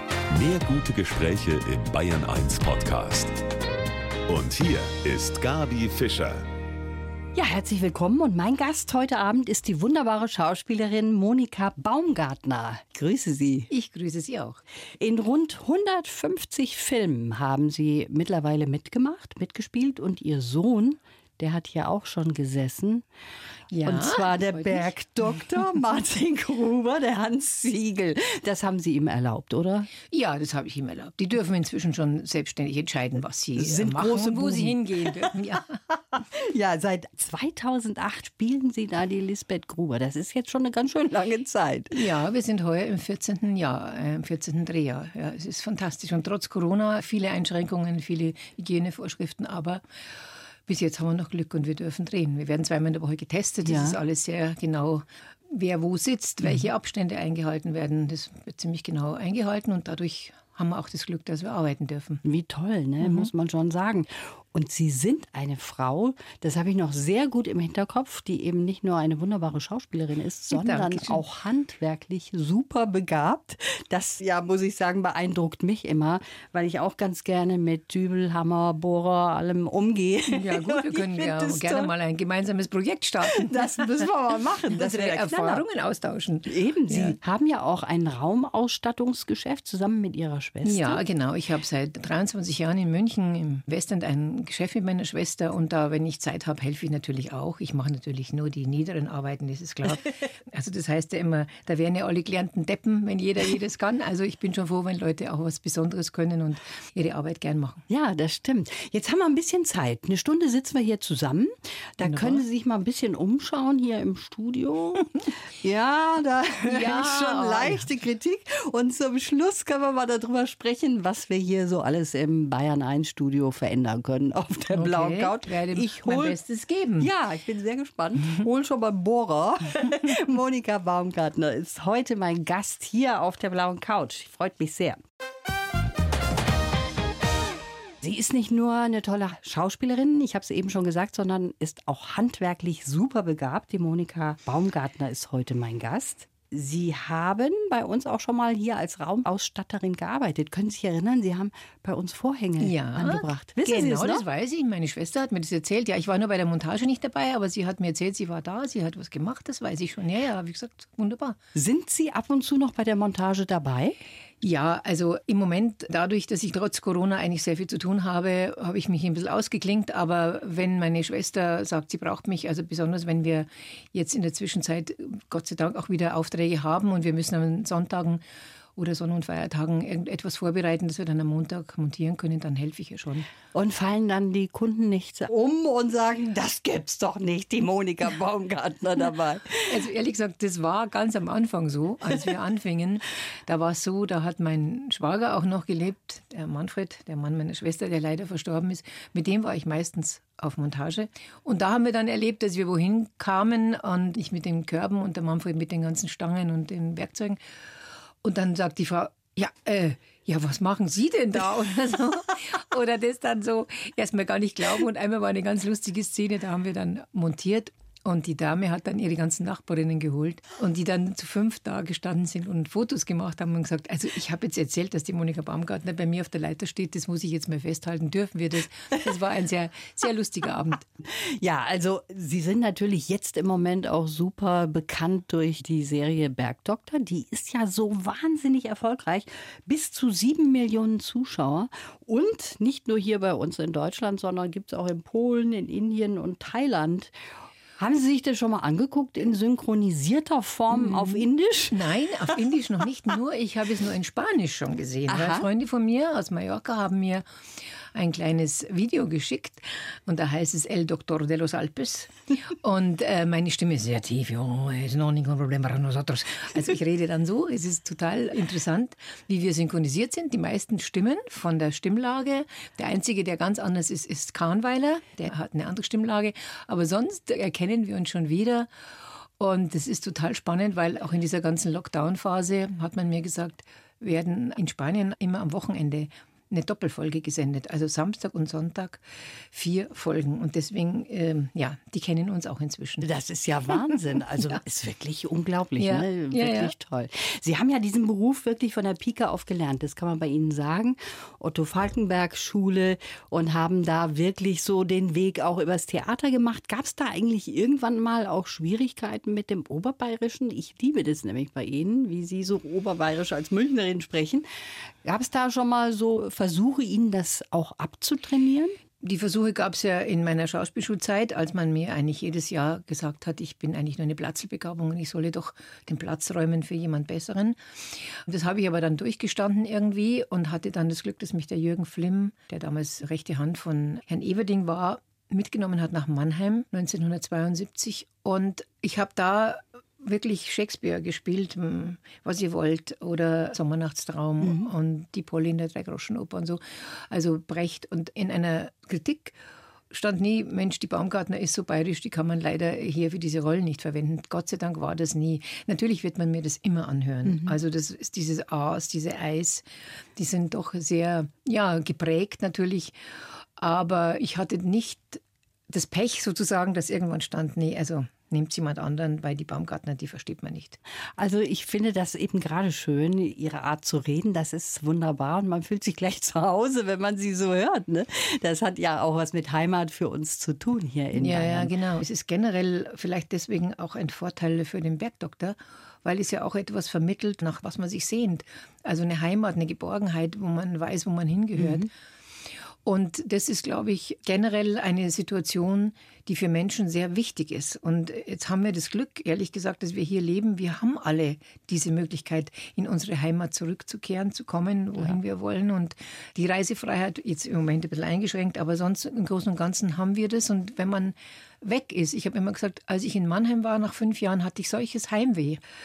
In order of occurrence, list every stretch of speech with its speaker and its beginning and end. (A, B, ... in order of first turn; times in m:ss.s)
0:00.3-0:03.4 A
0:04.3-0:06.5 A
0:07.4-0:13.7 B
0:13.7-0:14.6 C
0:15.0-0:23.0 B
0:23.7-0:24.9 C
0:23.8-0:29.9 B
0:30.1-0:35.8 C
0:33.6-0:35.4 B
0:35.9-0:42.0 B
0:41.9-1:02.2 C
0:53.6-0:54.0 B
1:02.2-1:21.9 B
1:03.0-1:03.3 C
1:10.5-1:11.2 C
1:20.3-1:24.1 C
1:23.2-1:25.6 B
1:24.7-1:27.2 C
1:26.5-1:31.0 B
1:30.6-1:47.8 C
1:47.9-2:06.4 B
1:52.0-1:52.4 C
1:56.7-1:57.9 C
2:04.7-2:07.1 C
2:07.0-2:15.0 B
2:18.0-2:34.2 B
2:32.6-2:41.4 C
2:41.6-2:44.0 B
2:44.4-2:58.2 C
2:58.8-3:03.3 C
3:03.5-3:09.8 B
3:09.7-3:27.4 C
3:28.2-3:50.9 C
3:51.0-4:07.1 B
4:07.8-4:11.9 B
4:10.7-4:17.2 C
4:15.1-4:15.5 B
4:17.9-4:38.7 C
4:39.4-4:53.1 C
4:53.0-5:14.4 B
4:55.8-4:56.7 C
5:15.0-5:18.8 B
5:19.0-5:49.4 C
5:44.4-5:44.7 B
5:49.9-5:59.6 C
5:57.2-5:57.6 B
6:00.2-6:10.8 C
6:11.2-6:21.7 B
6:21.1-6:31.9 C
6:31.6-6:31.9 B
6:32.8-6:55.6 C